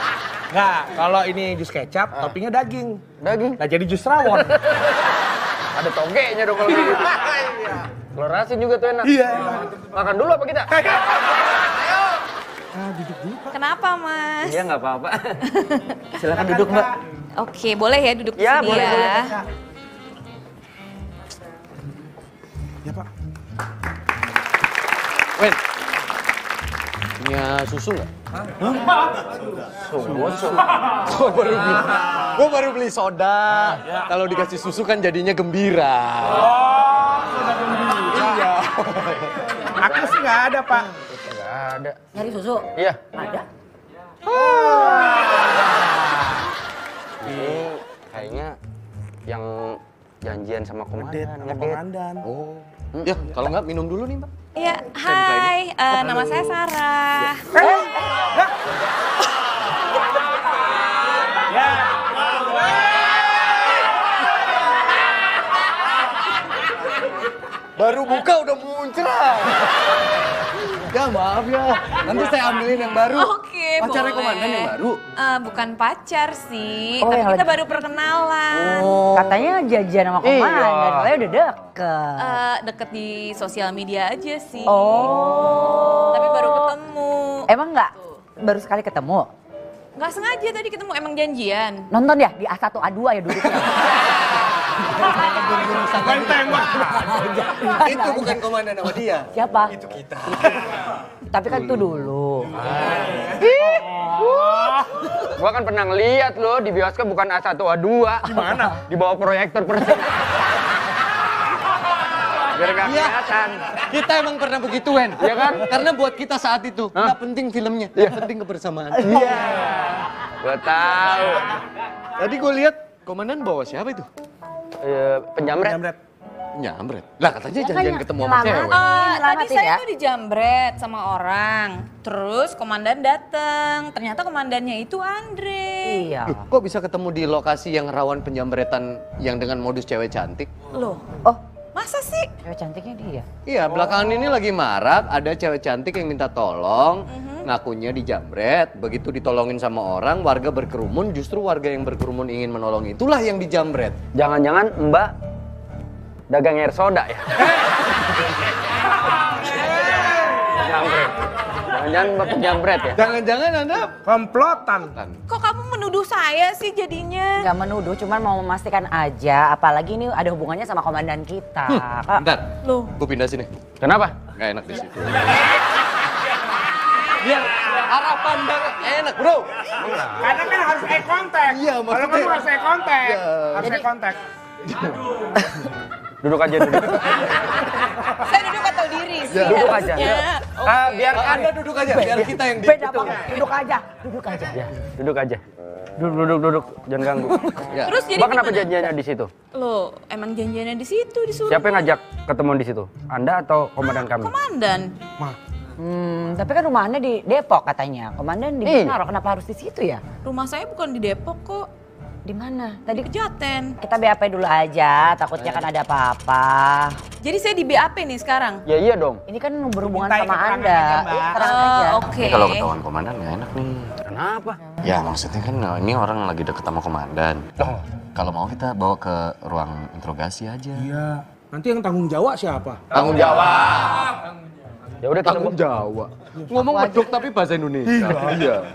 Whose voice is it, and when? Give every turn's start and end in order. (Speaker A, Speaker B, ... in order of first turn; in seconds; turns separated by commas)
Speaker A: 0.5-3.0, Speaker B: 3.2-3.6, Speaker A: 3.6-4.5, Speaker B: 4.2-4.9, Speaker B: 5.7-10.9, Speaker A: 9.0-9.7, Speaker A: 12.7-13.5, Speaker C: 13.5-14.6, Speaker B: 14.4-15.4, Speaker C: 15.5-16.2, Speaker B: 16.2-16.9, Speaker A: 16.4-16.9, Speaker C: 17.4-19.4, Speaker B: 18.4-19.3, Speaker D: 27.2-28.1, Speaker B: 29.8-30.6, Speaker D: 30.8-36.6, Speaker D: 38.0-39.4, Speaker B: 39.8-40.2, Speaker A: 39.8-40.9, Speaker B: 41.0-42.0, Speaker E: 42.1-43.5, Speaker B: 42.7-43.0, Speaker A: 44.3-44.9, Speaker E: 44.7-45.2, Speaker B: 47.2-48.6, Speaker B: 49.2-51.8, Speaker A: 51.0-52.2, Speaker D: 52.2-54.3, Speaker C: 54.5-57.5, Speaker D: 55.0-56.5, Speaker A: 57.5-58.5, Speaker A: 61.5-61.8, Speaker D: 67.8-69.9, Speaker D: 70.7-75.0, Speaker C: 72.1-79.0, Speaker E: 77.0-77.6, Speaker B: 78.5-79.4, Speaker E: 79.1-82.4, Speaker B: 80.2-81.2, Speaker C: 82.2-88.0, Speaker E: 84.6-86.7, Speaker E: 87.5-89.3, Speaker C: 90.0-91.9, Speaker E: 91.9-93.9, Speaker D: 94.9-97.0, Speaker A: 96.0-97.1, Speaker E: 96.9-98.4, Speaker D: 97.8-100.7, Speaker E: 99.3-99.7, Speaker E: 101.3-102.6, Speaker B: 103.8-110.3, Speaker A: 108.3-108.8, Speaker B: 112.5-113.6, Speaker D: 112.8-119.6, Speaker B: 115.2-115.7, Speaker B: 118.0-118.2, Speaker B: 119.0-119.5, Speaker E: 119.1-119.7, Speaker B: 120.4-121.5, Speaker D: 122.2-124.1, Speaker B: 124.8-125.8, Speaker A: 125.6-126.0, Speaker D: 126.5-128.8, Speaker E: 127.5-129.8, Speaker C: 128.7-136.1, Speaker E: 135.8-136.4, Speaker D: 136.2-140.5, Speaker C: 140.7-141.0, Speaker C: 141.7-142.3, Speaker E: 142.4-143.2, Speaker D: 143.4-154.0, Speaker C: 147.1-147.5, Speaker B: 154.1-155.1, Speaker B: 156.3-157.5, Speaker B: 160.3-161.1, Speaker B: 161.7-163.0, Speaker D: 162.9-164.0, Speaker A: 164.0-164.9, Speaker D: 164.8-165.2, Speaker C: 165.3-167.5, Speaker E: 167.4-172.2, Speaker D: 171.7-173.5, Speaker C: 172.6-172.9, Speaker B: 173.8-174.2, Speaker D: 174.3-175.5, Speaker D: 177.2-179.7, Speaker A: 180.2-184.2, Speaker D: 181.3-183.8, Speaker D: 184.7-185.0, Speaker B: 186.2-187.1, Speaker C: 188.2-191.2, Speaker D: 189.3-190.2, Speaker B: 189.4-191.5, Speaker D: 191.1-193.3, Speaker E: 191.8-194.7, Speaker B: 194.5-195.4, Speaker B: 196.0-197.6, Speaker D: 197.6-198.0, Speaker C: 197.8-198.9, Speaker B: 198.1-199.3, Speaker C: 199.5-201.9, Speaker B: 201.5-204.3, Speaker C: 204.1-204.9, Speaker E: 205.8-210.0, Speaker B: 208.6-209.0, Speaker C: 210.2-211.7, Speaker E: 212.2-213.1, Speaker C: 212.9-213.7, Speaker E: 213.8-217.0, Speaker B: 215.4-215.7, Speaker C: 217.2-218.6, Speaker B: 218.7-219.2, Speaker E: 219.3-222.1, Speaker A: 219.8-221.5, Speaker C: 221.3-222.7, Speaker D: 222.1-224.0, Speaker B: 224.0-224.6, Speaker D: 224.8-227.5, Speaker D: 228.1-230.9, Speaker A: 230.8-232.8, Speaker D: 232.9-234.1, Speaker B: 235.0-235.6, Speaker D: 235.2-238.6, Speaker E: 236.6-237.1